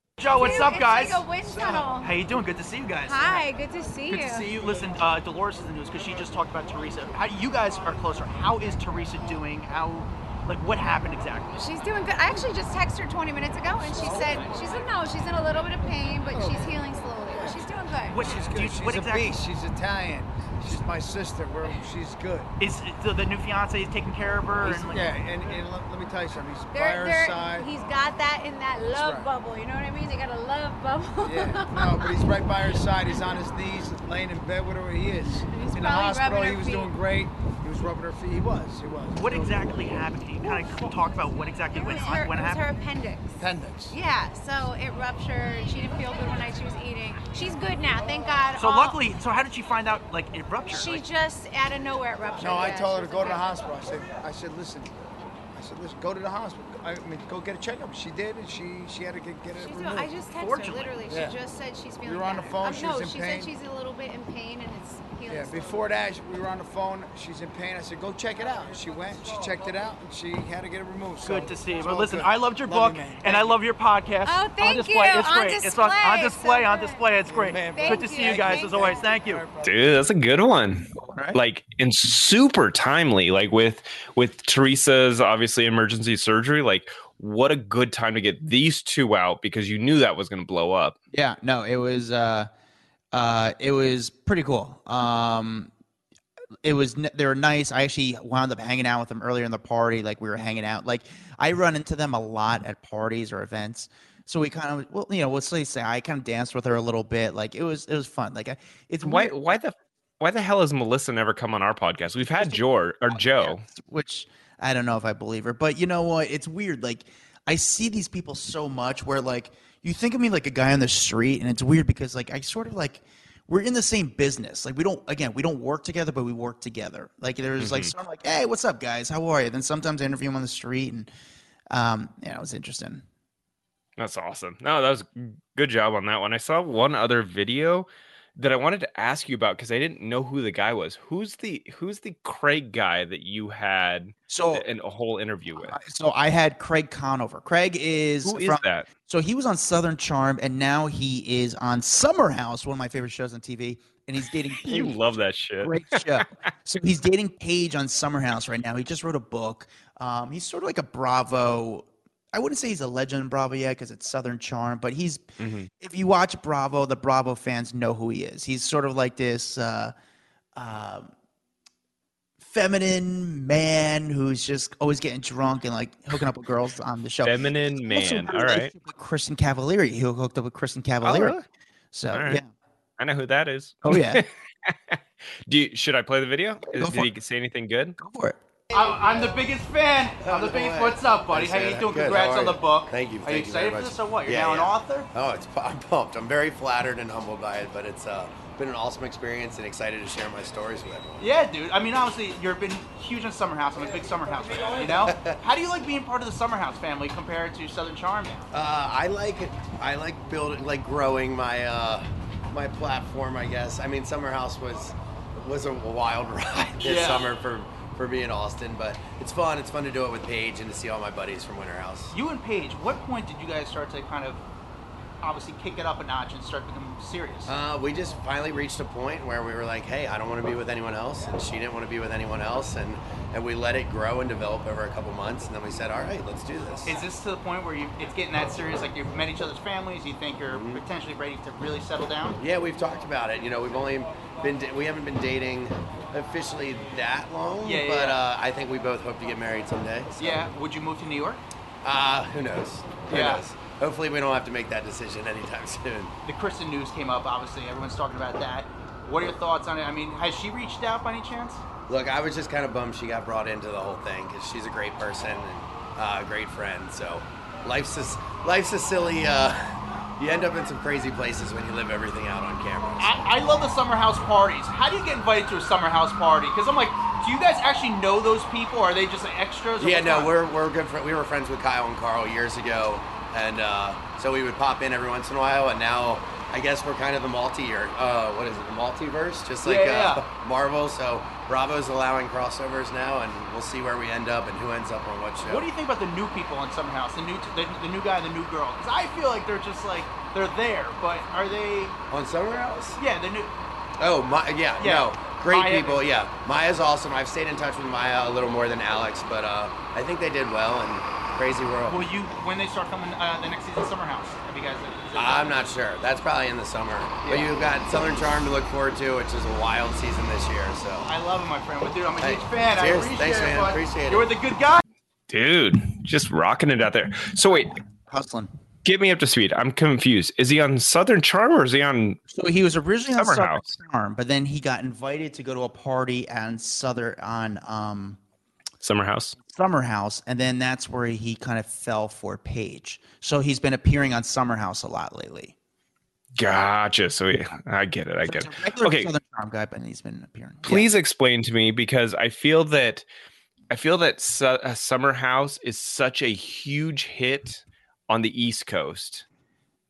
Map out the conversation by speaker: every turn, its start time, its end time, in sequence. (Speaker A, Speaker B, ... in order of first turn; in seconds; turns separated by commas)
Speaker A: 0.2-3.5, Speaker B: 0.2-2.1, Speaker B: 3.0-4.5, Speaker A: 4.1-11.6, Speaker B: 11.5-18.4, Speaker C: 13.9-14.6, Speaker C: 16.3-17.7, Speaker A: 18.1-19.3, Speaker C: 18.2-22.5, Speaker A: 22.6-25.1, Speaker C: 24.6-27.7, Speaker B: 26.7-32.3, Speaker C: 28.9-29.3, Speaker C: 31.2-40.9, Speaker B: 35.2-37.0, Speaker A: 39.1-42.6, Speaker B: 41.7-49.0, Speaker C: 43.4-44.0, Speaker A: 48.6-51.0, Speaker B: 50.7-53.6, Speaker C: 52.4-60.2, Speaker B: 59.5-65.8, Speaker A: 60.3-61.0, Speaker C: 61.0-61.4, Speaker C: 62.0-63.5, Speaker C: 65.3-73.6, Speaker A: 71.2-79.4, Speaker B: 74.2-77.1, Speaker C: 77.2-79.7, Speaker B: 77.7-79.1, Speaker D: 79.6-91.0, Speaker E: 80.9-81.4, Speaker E: 91.1-92.5, Speaker E: 93.1-95.7, Speaker E: 96.6-109.6, Speaker D: 109.0-113.6, Speaker E: 112.2-131.1, Speaker D: 127.6-127.9, Speaker E: 131.7-133.0, Speaker D: 134.0-145.8, Speaker E: 144.3-144.7, Speaker E: 145.6-155.0, Speaker D: 148.2-148.9, Speaker D: 154.6-156.2, Speaker E: 155.6-165.2, Speaker D: 165.4-165.7, Speaker E: 165.8-169.9, Speaker E: 170.5-171.1, Speaker E: 172.4-181.4, Speaker D: 177.2-178.7, Speaker D: 181.0-181.4, Speaker E: 181.9-182.5, Speaker D: 182.1-182.4, Speaker D: 183.0-187.9, Speaker E: 183.8-184.2, Speaker E: 186.7-187.1, Speaker E: 188.0-188.4, Speaker F: 188.7-189.3, Speaker A: 188.7-195.1, Speaker F: 190.2-201.2, Speaker A: 201.2-208.5, Speaker F: 204.7-205.4, Speaker F: 208.5-222.1, Speaker A: 216.8-217.3, Speaker A: 222.1-224.4, Speaker A: 225.2-227.5, Speaker F: 227.4-237.0, Speaker A: 236.8-242.4, Speaker F: 240.5-240.8, Speaker F: 242.4-250.4, Speaker A: 247.6-248.2, Speaker A: 250.2-251.4, Speaker F: 251.8-256.1, Speaker A: 253.1-253.4, Speaker A: 256.2-261.6, Speaker F: 261.9-273.4, Speaker A: 273.0-280.3, Speaker F: 279.8-295.7, Speaker A: 289.6-290.2, Speaker A: 295.4-301.9, Speaker F: 302.1-303.0, Speaker A: 303.0-303.5, Speaker F: 304.0-312.1, Speaker A: 304.8-306.0, Speaker A: 311.9-315.6, Speaker F: 315.1-321.1, Speaker A: 317.2-317.5, Speaker A: 321.1-324.8, Speaker F: 322.2-324.3, Speaker D: 325.3-327.8, Speaker E: 328.1-328.5, Speaker D: 328.8-332.2, Speaker E: 332.3-338.2, Speaker D: 333.1-333.7, Speaker D: 338.8-339.4, Speaker E: 339.4-345.5, Speaker D: 346.4-349.1, Speaker E: 348.2-350.9, Speaker D: 350.6-353.1, Speaker D: 353.7-359.2